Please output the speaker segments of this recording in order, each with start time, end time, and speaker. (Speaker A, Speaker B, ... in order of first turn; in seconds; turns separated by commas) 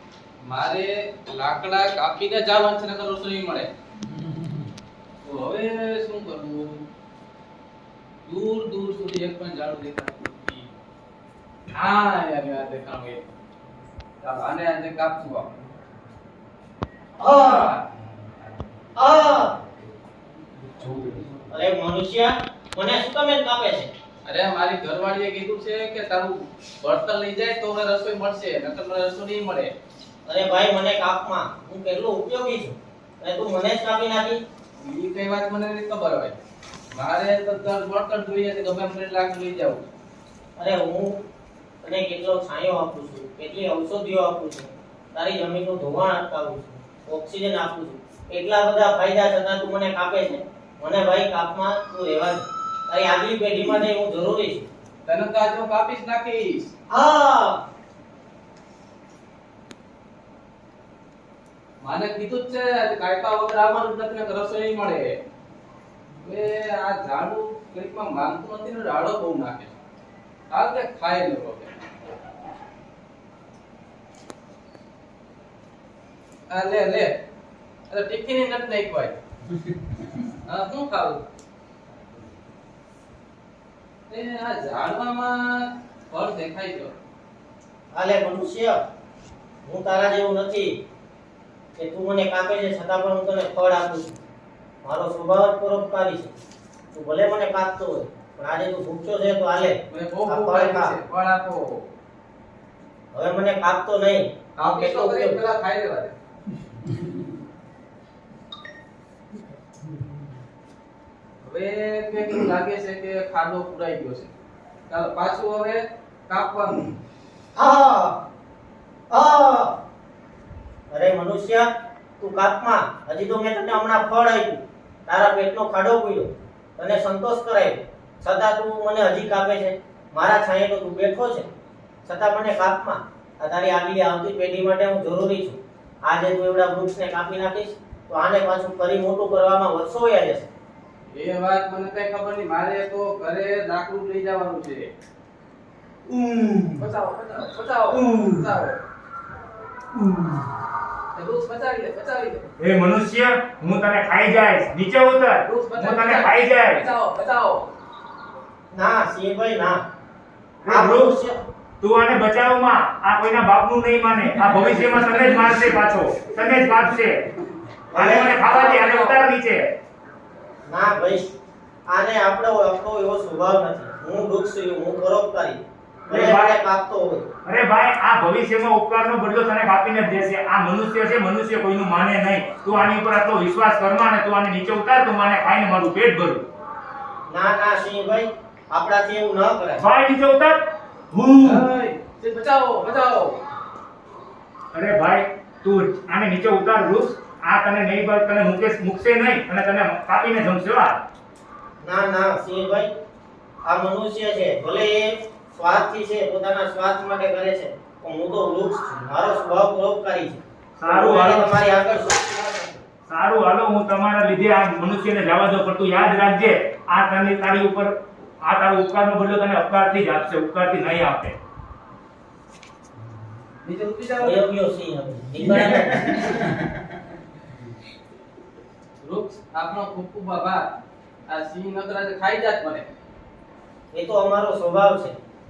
Speaker A: 0.5-3.7, Speaker A: 5.2-6.9, Speaker A: 8.2-10.7, Speaker A: 11.7-13.2, Speaker A: 14.2-15.5, Speaker B: 17.2-17.7, Speaker A: 17.2-17.8, Speaker B: 19.0-19.6, Speaker A: 20.8-21.2, Speaker B: 21.5-23.9, Speaker A: 24.2-29.7, Speaker B: 30.3-34.4, Speaker A: 34.8-36.4, Speaker A: 36.9-39.9, Speaker B: 40.6-41.2, Speaker B: 41.8-54.7, Speaker A: 55.0-56.7, Speaker B: 56.9-57.6, Speaker A: 61.8-65.1, Speaker A: 66.2-69.8, Speaker A: 70.5-71.8, Speaker A: 76.5-77.2, Speaker A: 77.9-79.2, Speaker A: 80.4-81.2, Speaker A: 84.1-87.0, Speaker B: 87.9-88.8, Speaker B: 89.7-90.7, Speaker B: 91.8-94.2, Speaker B: 94.8-96.3, Speaker B: 96.9-101.0, Speaker A: 99.9-101.9, Speaker B: 103.1-105.4, Speaker A: 104.6-106.2, Speaker A: 111.4-114.3, Speaker A: 114.9-116.9, Speaker B: 117.6-118.2, Speaker B: 119.1-119.8, Speaker B: 120.9-121.7, Speaker B: 122.2-131.5, Speaker B: 132.1-140.5, Speaker A: 141.1-144.9, Speaker C: 146.1-146.8, Speaker A: 146.8-148.8, Speaker C: 147.9-148.5, Speaker C: 149.9-150.4, Speaker A: 151.1-152.5, Speaker C: 152.6-156.8, Speaker A: 155.4-157.7, Speaker B: 158.7-159.8, Speaker C: 160.6-161.2, Speaker B: 160.7-161.4, Speaker C: 161.8-167.3, Speaker B: 167.9-169.2, Speaker C: 167.9-169.6, Speaker B: 170.7-171.3, Speaker B: 171.9-177.3, Speaker C: 176.1-176.6, Speaker C: 177.4-186.4, Speaker B: 187.3-189.8, Speaker C: 189.8-190.6, Speaker C: 191.1-191.7, Speaker A: 191.4-193.4, Speaker C: 194.7-201.0, Speaker B: 201.8-202.9, Speaker B: 203.7-212.2, Speaker C: 210.8-211.5, Speaker A: 211.7-212.8, Speaker C: 213.1-221.4, Speaker A: 223.6-224.5, Speaker B: 224.2-226.5, Speaker A: 229.0-230.7, Speaker A: 231.3-232.9, Speaker B: 233.9-235.2